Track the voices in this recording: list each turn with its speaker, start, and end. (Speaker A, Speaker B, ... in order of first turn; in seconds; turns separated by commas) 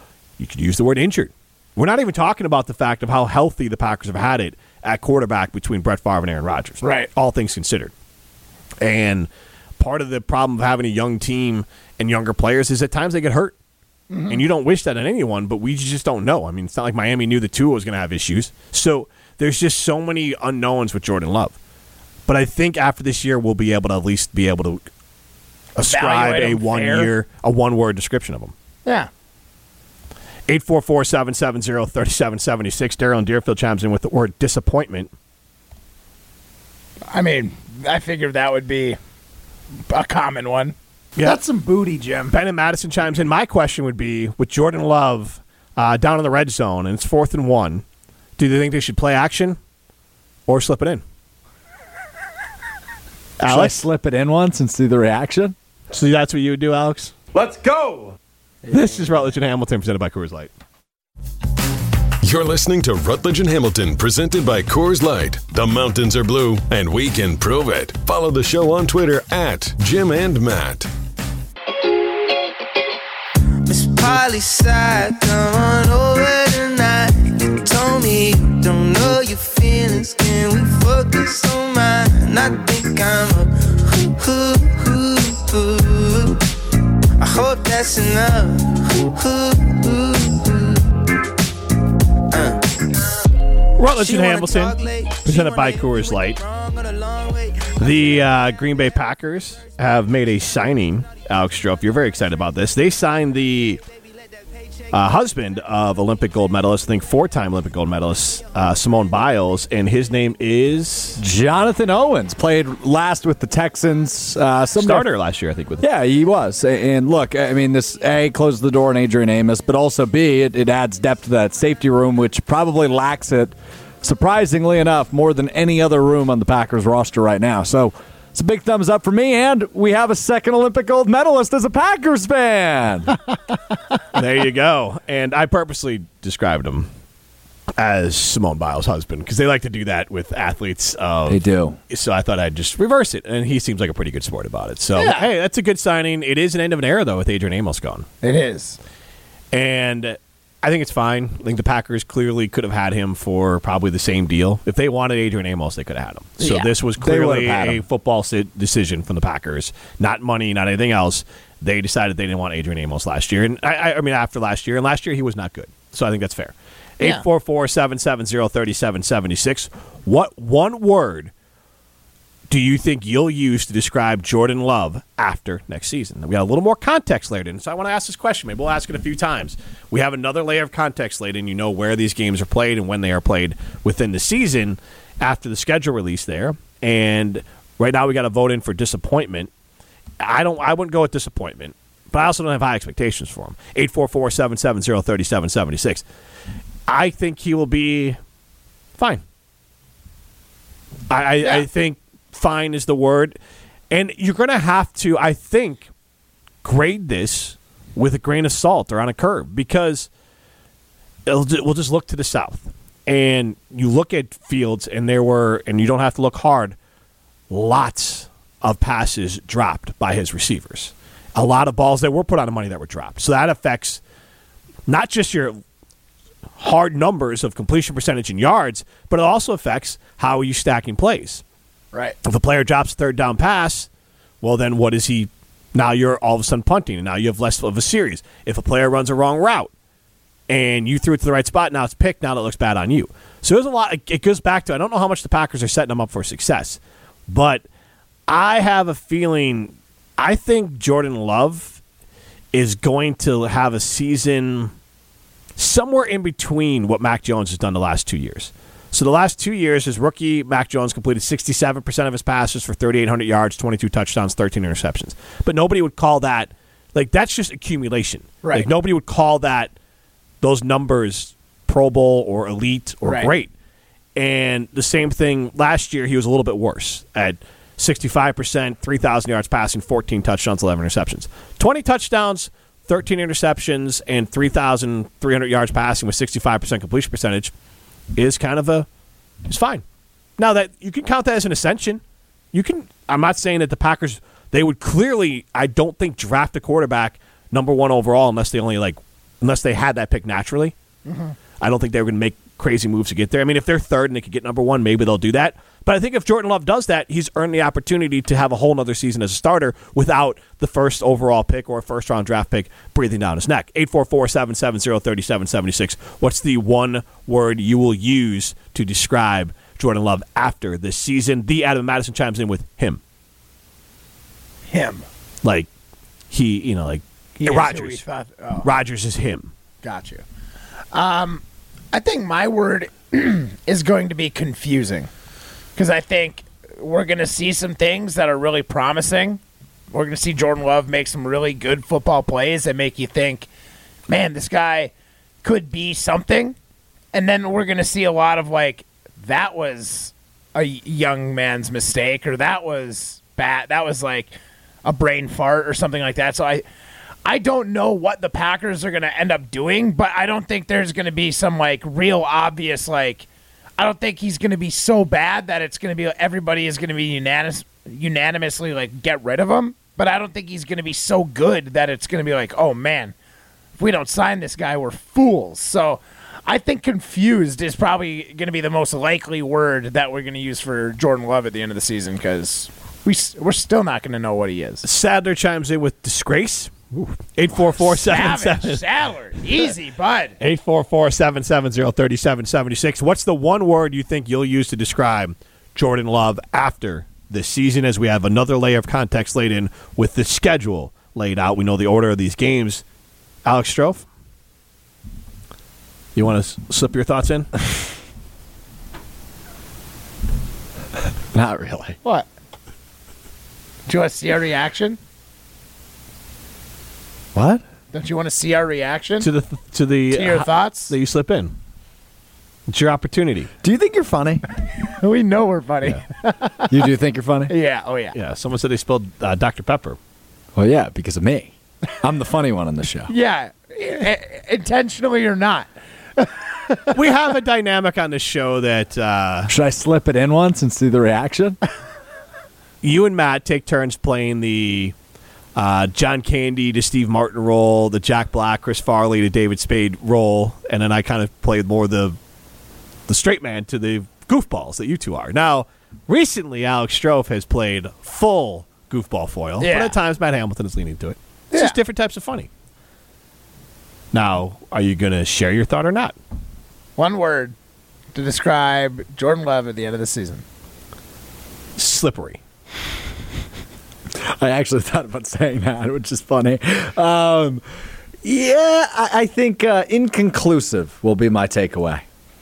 Speaker A: 0.4-7.9, Speaker B: 6.8-7.1, Speaker A: 8.8-13.5, Speaker B: 14.1-14.4, Speaker A: 14.3-21.6, Speaker A: 22.3-24.8, Speaker A: 25.8-28.5, Speaker B: 25.8-27.1, Speaker A: 30.5-35.1, Speaker B: 37.1-39.0, Speaker B: 39.9-42.4, Speaker A: 42.3-47.8, Speaker A: 48.4-49.6, Speaker A: 50.5-51.0, Speaker A: 53.4-53.8, Speaker C: 53.5-55.5, Speaker A: 55.9-57.1, Speaker C: 57.3-58.2, Speaker A: 58.7-60.5, Speaker D: 62.2-70.9, Speaker E: 73.6-86.5, Speaker E: 87.2-91.0, Speaker E: 92.3-98.0, Speaker A: 93.8-96.4, Speaker A: 97.8-103.8, Speaker A: 104.9-111.2, Speaker C: 111.2-115.1, Speaker A: 114.8-115.9, Speaker C: 115.8-133.2, Speaker A: 134.1-136.9, Speaker A: 137.8-148.1, Speaker C: 141.3-141.8, Speaker B: 144.9-145.3, Speaker B: 148.2-148.8, Speaker A: 149.5-171.3, Speaker B: 156.4-156.7, Speaker C: 157.0-157.8, Speaker A: 172.5-189.5, Speaker A: 190.2-196.0, Speaker A: 196.9-198.2, Speaker A: 201.1-203.4, Speaker A: 203.9-205.9, Speaker A: 206.6-210.1, Speaker A: 211.3-216.8, Speaker A: 217.5-224.0, Speaker A: 224.9-225.6, Speaker A: 226.6-231.4, Speaker A: 232.2-233.9, Speaker A: 234.4-239.7, Speaker A: 240.5-247.6, Speaker A: 248.3-251.8, Speaker A: 252.5-254.7, Speaker A: 255.6-269.7, Speaker B: 268.4-268.7, Speaker A: 270.4-273.5, Speaker B: 273.0-273.3, Speaker A: 274.2-287.5, Speaker A: 288.1-288.9, Speaker A: 289.5-289.8, Speaker A: 290.4-292.0, Speaker A: 292.5-300.7, Speaker B: 301.1-301.3, Speaker A: 301.6-323.0, Speaker B: 324.7-325.1, Speaker A: 325.4-325.7, Speaker A: 326.3-328.0, Speaker B: 327.4-328.7, Speaker A: 328.6-329.5, Speaker B: 329.8-330.2, Speaker B: 330.9-335.1, Speaker B: 335.8-339.4, Speaker B: 339.9-343.5, Speaker B: 344.1-346.6, Speaker B: 347.1-356.6, Speaker B: 357.2-363.3, Speaker B: 363.8-373.1, Speaker B: 373.8-384.8, Speaker A: 384.8-388.8, Speaker B: 387.8-390.4, Speaker A: 390.4-402.8, Speaker A: 403.4-404.0, Speaker A: 406.1-407.5, Speaker C: 411.3-412.0, Speaker B: 413.9-415.0, Speaker C: 417.3-417.6, Speaker B: 417.9-419.3, Speaker A: 419.2-421.6, Speaker B: 420.1-420.9, Speaker A: 422.7-423.5, Speaker C: 423.6-424.4, Speaker B: 424.8-426.7, Speaker C: 426.7-427.5, Speaker B: 427.5-428.2, Speaker A: 428.1-430.0, Speaker C: 430.6-433.1, Speaker B: 433.1-436.9, Speaker A: 436.9-439.5, Speaker C: 439.5-441.6, Speaker A: 442.8-444.9, Speaker A: 445.6-452.2, Speaker A: 453.1-462.5, Speaker B: 459.6-459.9, Speaker B: 461.5-461.8, Speaker A: 464.1-466.2, Speaker B: 467.0-467.6, Speaker B: 468.1-470.4, Speaker A: 471.8-472.4, Speaker C: 474.2-477.6, Speaker C: 478.2-482.1